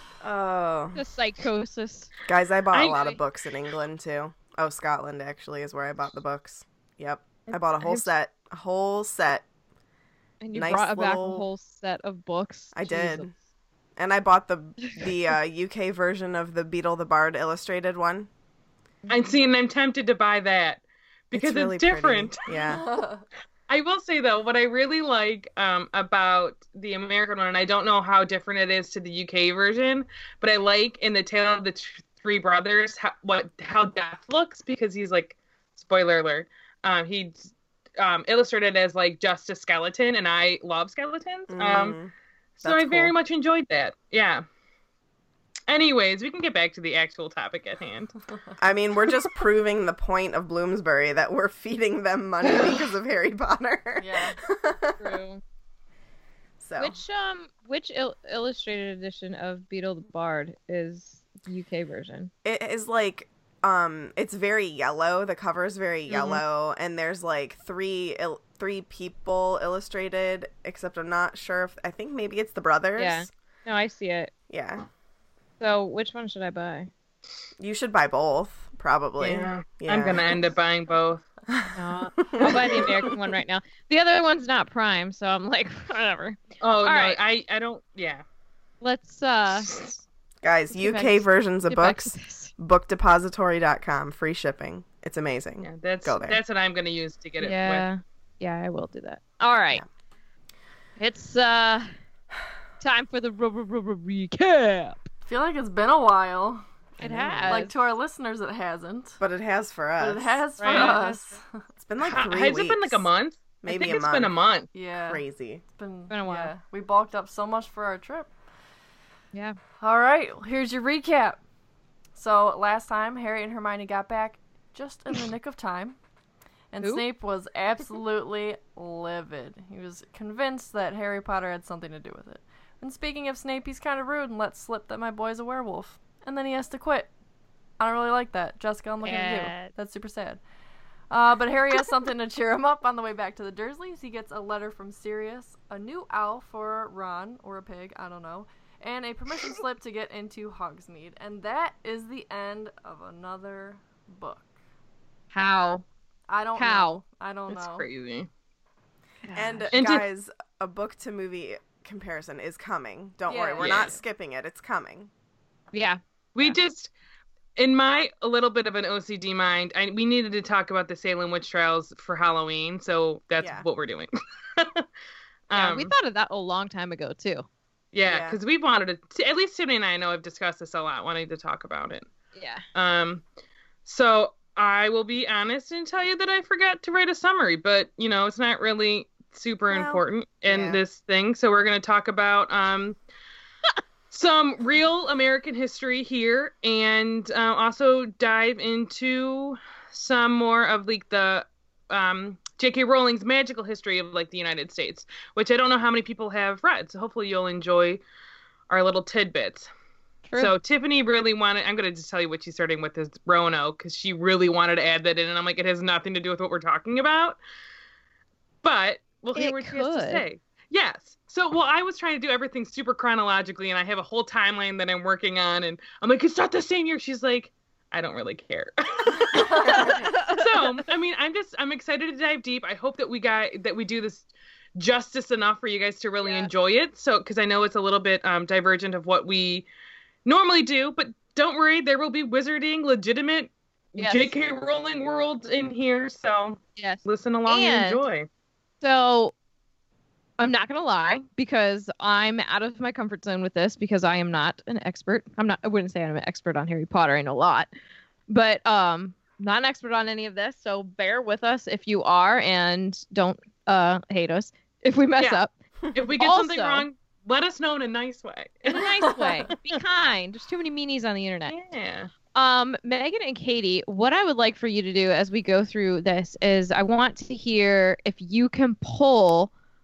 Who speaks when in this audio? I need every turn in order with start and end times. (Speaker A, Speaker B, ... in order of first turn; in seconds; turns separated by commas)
Speaker A: 0.2-1.0, Speaker B: 0.9-2.1, Speaker A: 2.2-9.4, Speaker B: 2.7-3.2, Speaker B: 7.5-8.1, Speaker B: 10.4-13.3, Speaker A: 10.5-11.4, Speaker A: 12.8-13.3, Speaker A: 14.0-18.3, Speaker C: 19.1-22.4, Speaker A: 21.3-22.9, Speaker D: 22.7-23.2, Speaker C: 23.7-42.0, Speaker A: 41.5-43.1, Speaker C: 42.6-44.4, Speaker C: 45.7-48.1, Speaker A: 48.6-54.9, Speaker D: 54.0-54.4, Speaker B: 55.0-55.4, Speaker A: 56.6-57.0, Speaker B: 56.8-62.3, Speaker A: 62.4-73.3, Speaker B: 66.1-66.4, Speaker B: 73.0-74.3, Speaker A: 74.5-74.8, Speaker B: 75.6-76.9, Speaker A: 77.6-80.4, Speaker C: 79.2-81.2, Speaker B: 81.7-87.2, Speaker A: 82.3-82.9, Speaker C: 86.6-88.2, Speaker B: 88.8-89.7, Speaker A: 90.4-96.4, Speaker B: 90.7-92.5, Speaker C: 95.6-97.9, Speaker B: 97.4-99.8, Speaker B: 101.0-101.9, Speaker B: 102.8-105.0, Speaker D: 105.2-106.7, Speaker B: 107.0-107.7, Speaker A: 107.0-107.5, Speaker D: 107.5-109.2, Speaker A: 109.2-110.4, Speaker D: 110.0-111.5, Speaker B: 110.6-111.4, Speaker C: 110.7-110.9, Speaker A: 111.8-113.1, Speaker C: 112.0-114.7, Speaker A: 113.6-114.3, Speaker D: 114.7-115.2, Speaker A: 115.0-115.6, Speaker D: 115.7-118.3, Speaker B: 116.1-116.5, Speaker B: 119.3-119.6, Speaker D: 119.8-121.4, Speaker D: 122.2-126.0, Speaker D: 126.7-137.1, Speaker D: 137.8-140.4, Speaker B: 139.0-139.7, Speaker D: 141.1-154.5, Speaker B: 155.3-155.8, Speaker D: 156.3-157.8, Speaker B: 156.6-157.0, Speaker C: 157.5-158.3, Speaker B: 159.2-159.7, Speaker A: 159.3-165.1, Speaker C: 159.7-160.1, Speaker D: 163.3-163.9, Speaker C: 163.6-163.9, Speaker B: 165.7-166.0, Speaker C: 166.3-166.9, Speaker C: 167.6-174.8, Speaker A: 173.4-173.7, Speaker C: 175.5-175.9, Speaker B: 175.5-177.4, Speaker C: 177.9-182.1, Speaker A: 178.1-178.4, Speaker B: 182.3-182.6, Speaker C: 182.7-183.2, Speaker C: 183.8-193.0, Speaker A: 189.7-190.8, Speaker C: 194.1-208.0, Speaker C: 208.7-209.7, Speaker C: 210.3-217.4, Speaker C: 218.6-239.7, Speaker B: 219.3-220.2, Speaker D: 229.5-229.9, Speaker C: 240.2-248.3, Speaker B: 244.0-244.3, Speaker B: 246.8-248.0, Speaker B: 248.8-249.3, Speaker B: 250.4-257.7, Speaker B: 258.3-265.5, Speaker C: 265.2-269.6, Speaker B: 266.2-266.8, Speaker B: 268.7-271.5, Speaker C: 271.5-272.1, Speaker B: 272.3-279.5